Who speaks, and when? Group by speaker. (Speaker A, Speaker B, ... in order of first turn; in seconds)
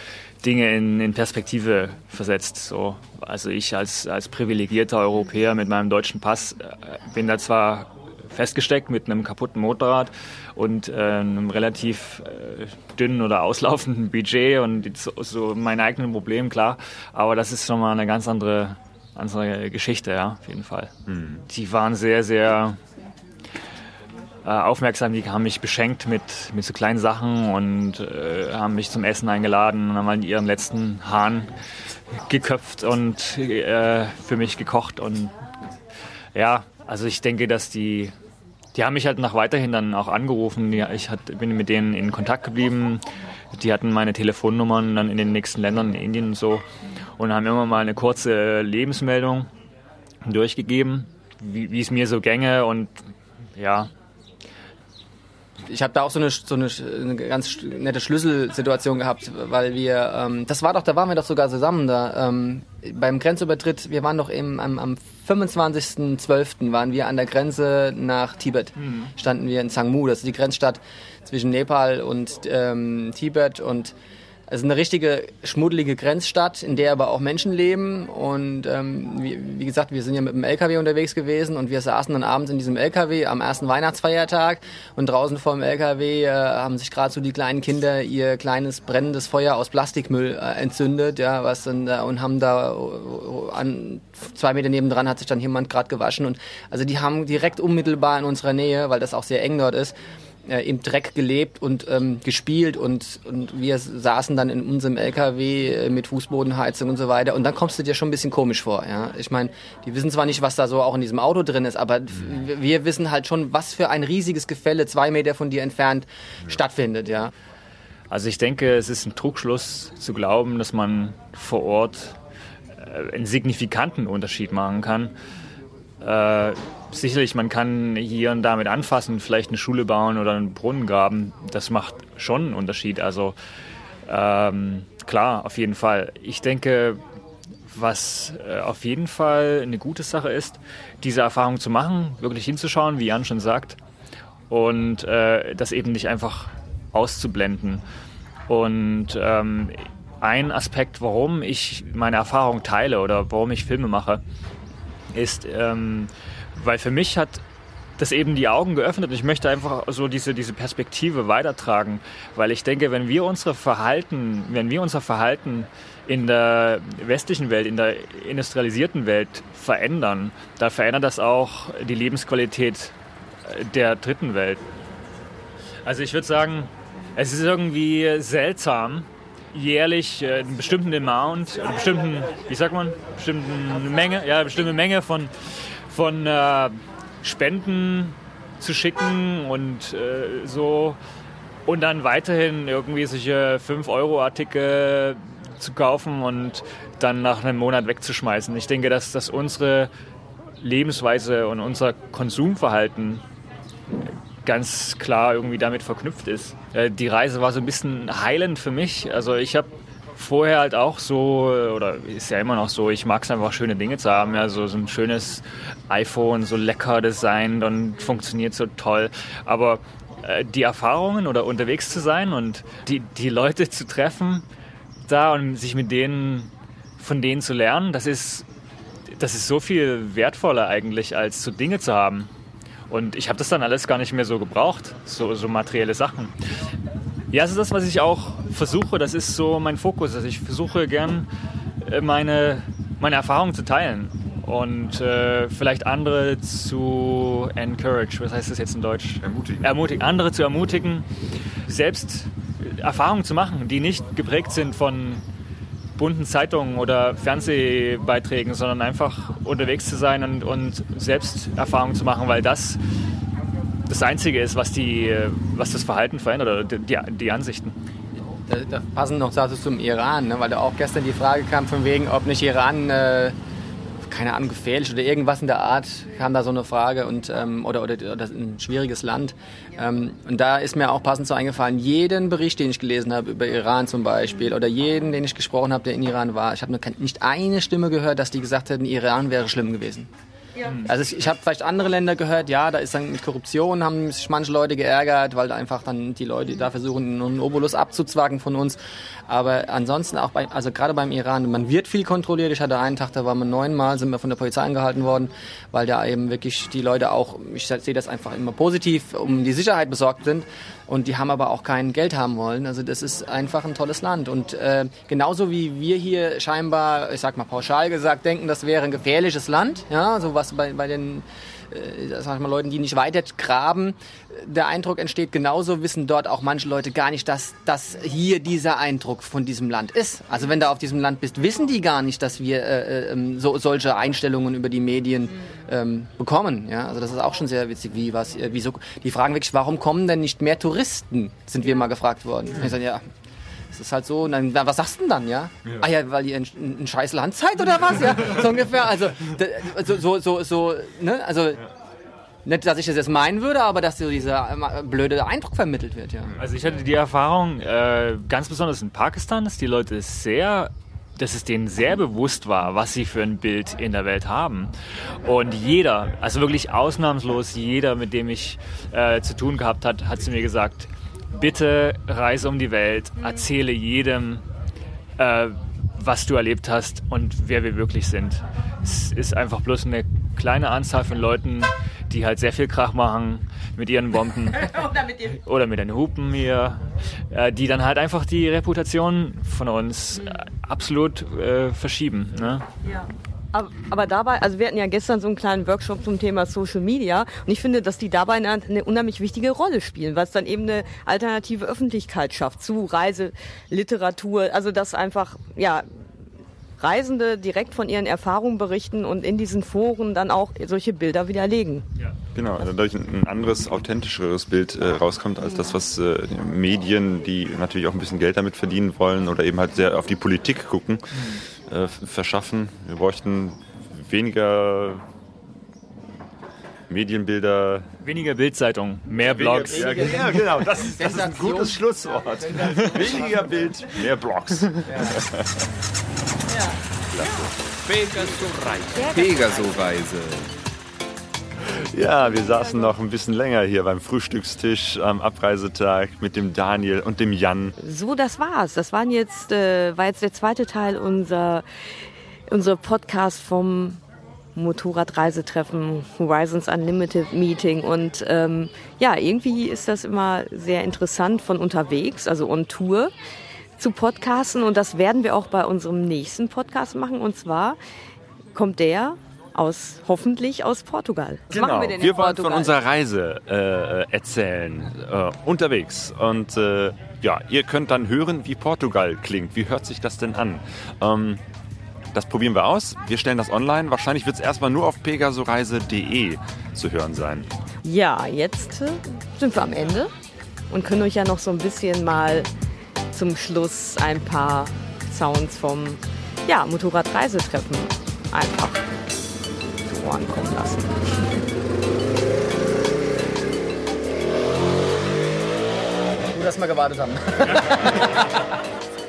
Speaker A: 0.4-20.9, 21.5-22.8, 24.4-31.5, 32.3-35.3, 36.3-38.1, 38.7-43.0, 43.5-46.6, 47.2-49.5, 50.2-53.9, 118.1-122.2, 122.8-125.1, 126.0-133.4, 134.1-137.0, 137.7-143.8, 144.5-147.8, 148.5-154.2, 155.1-157.4, 158.0-172.9, 173.4-174.6, 175.8-191.0, 191.7-199.9, 200.6-203.2, 204.4-224.5, 225.1-228.5, 229.1-232.3, 232.9-236.3, 237.3-241.3, 241.8-251.1, 251.7-255.2, 256.0-262.8, 263.9-267.8, 356.4-364.7, 365.2-374.4, 375.2-392.7, 428.0-430.0, 432.6-432.9
Speaker B: 21.1-21.4, 249.2-249.7, 412.4-425.0, 426.9-427.9, 429.3-435.7, 437.1-437.5, 441.6-447.8, 471.5-481.4, 482.1-487.5
Speaker C: 55.7-74.0, 74.5-100.0, 100.5-117.3, 268.5-273.4, 274.1-290.1, 290.8-343.0, 343.7-351.7, 352.4-356.3, 429.7-433.7, 434.9-435.2, 506.3-508.5
Speaker D: 392.9-405.9, 406.8-411.9, 438.9-440.0, 442.4-442.9, 447.8-451.6, 452.5-454.0, 454.6-463.1, 463.8-467.8, 468.6-472.7, 487.8-490.1, 490.7-492.5, 493.1-498.9, 499.8-501.4
Speaker E: 437.9-440.5